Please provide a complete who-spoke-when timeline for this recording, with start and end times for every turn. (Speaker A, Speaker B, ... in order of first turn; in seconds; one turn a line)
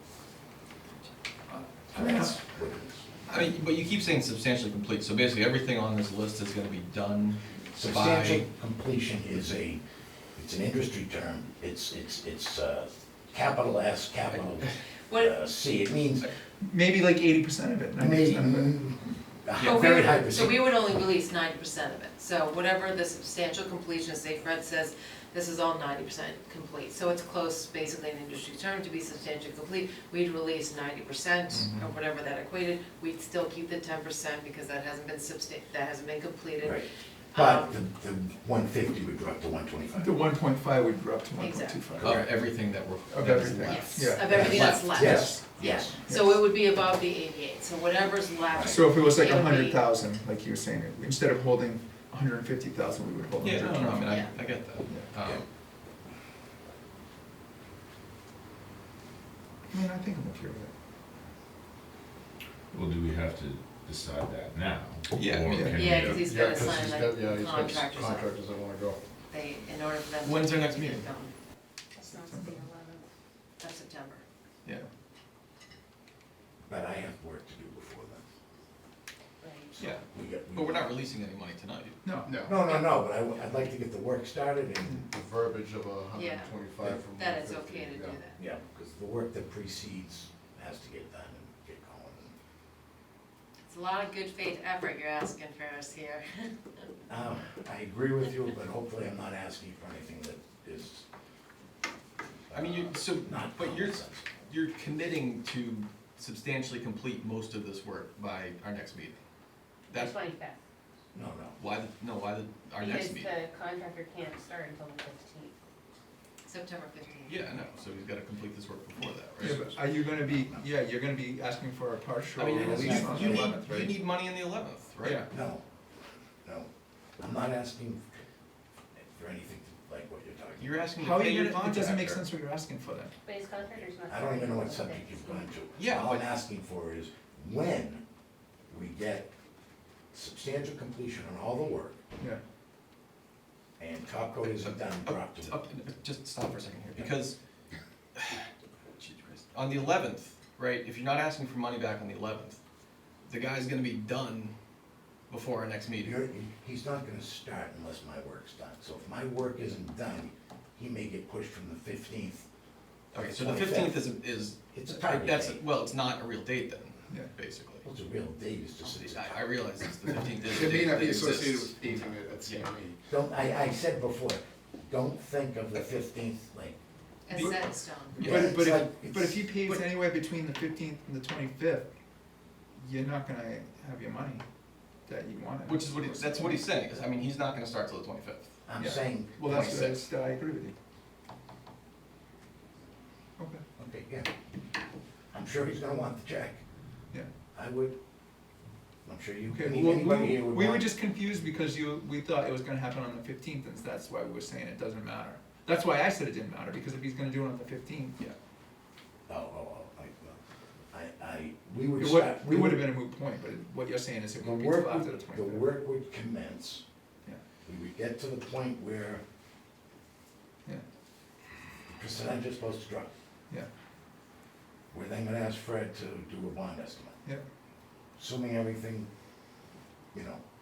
Speaker A: 1.5-2.4
Speaker B: 1.9-3.1
Speaker C: 3.3-8.5
Speaker B: 7.7-9.8
Speaker B: 10.3-16.3
Speaker D: 15.1-15.4
Speaker A: 16.6-18.8
Speaker B: 18.0-20.6
Speaker D: 19.6-37.8
Speaker C: 31.5-31.8
Speaker B: 36.6-40.2
Speaker A: 39.9-42.4
Speaker D: 41.4-42.0
Speaker C: 42.0-45.4
Speaker A: 43.1-45.4
Speaker D: 43.6-49.8
Speaker B: 44.3-46.0
Speaker A: 46.0-46.4
Speaker B: 48.5-48.8
Speaker A: 48.7-54.2
Speaker C: 53.4-55.4
Speaker D: 54.1-54.3
Speaker A: 59.7-60.7
Speaker E: 62.7-66.3
Speaker C: 65.1-65.8
Speaker A: 65.5-65.8
Speaker D: 65.7-68.3
Speaker F: 66.2-69.0
Speaker D: 69.3-71.3
Speaker C: 70.2-71.1
Speaker G: 72.0-73.1
Speaker A: 72.1-72.6
Speaker D: 73.6-74.2
Speaker B: 76.7-78.2
Speaker G: 79.4-79.7
Speaker B: 79.7-80.9
Speaker C: 79.8-82.0
Speaker A: 82.0-82.4
Speaker F: 82.3-82.5
Speaker B: 82.4-85.0
Speaker F: 85.1-88.2
Speaker D: 86.1-86.5
Speaker D: 87.2-88.4
Speaker B: 88.4-92.3
Speaker D: 93.7-96.9
Speaker B: 97.1-101.0
Speaker B: 102.5-104.3
Speaker C: 102.5-109.2
Speaker G: 109.9-110.6
Speaker C: 109.9-110.2
Speaker B: 111.1-111.6
Speaker C: 111.6-113.3
Speaker G: 112.8-115.5
Speaker D: 116.5-117.4
Speaker C: 117.3-119.6
Speaker A: 119.4-124.0
Speaker B: 120.3-120.7
Speaker C: 122.4-125.2
Speaker B: 122.6-123.5
Speaker A: 125.0-125.3
Speaker B: 125.3-125.6
Speaker B: 126.4-128.1
Speaker B: 129.1-130.7
Speaker C: 130.6-132.2
Speaker A: 131.0-133.2
Speaker G: 133.2-135.5
Speaker B: 134.1-138.0
Speaker C: 135.8-136.2
Speaker B: 138.7-139.3
Speaker B: 140.1-142.0
Speaker B: 143.8-145.5
Speaker C: 144.5-147.4
Speaker C: 148.2-152.6
Speaker C: 153.3-154.5
Speaker C: 155.3-156.2
Speaker B: 156.0-162.5
Speaker C: 163.1-167.9
Speaker B: 163.2-164.0
Speaker B: 164.7-165.6
Speaker B: 167.8-169.4
Speaker C: 168.8-172.7
Speaker F: 170.4-173.0
Speaker B: 173.1-176.8
Speaker D: 177.3-178.4
Speaker A: 178.2-181.9
Speaker B: 178.2-179.8
Speaker C: 178.2-178.5
Speaker A: 182.8-184.4
Speaker A: 185.1-186.6
Speaker C: 185.7-188.6
Speaker B: 188.7-189.4
Speaker A: 188.8-190.8
Speaker C: 189.4-190.1
Speaker A: 193.4-193.6
Speaker B: 193.8-194.3
Speaker B: 195.3-196.6
Speaker B: 197.5-198.0
Speaker B: 199.1-200.9
Speaker A: 199.5-208.4
Speaker B: 209.3-210.4
Speaker B: 210.9-212.9
Speaker A: 212.0-215.7
Speaker B: 214.4-216.8
Speaker B: 217.7-219.2
Speaker B: 221.9-223.1
Speaker B: 224.9-227.2
Speaker B: 228.2-229.1
Speaker B: 230.1-230.4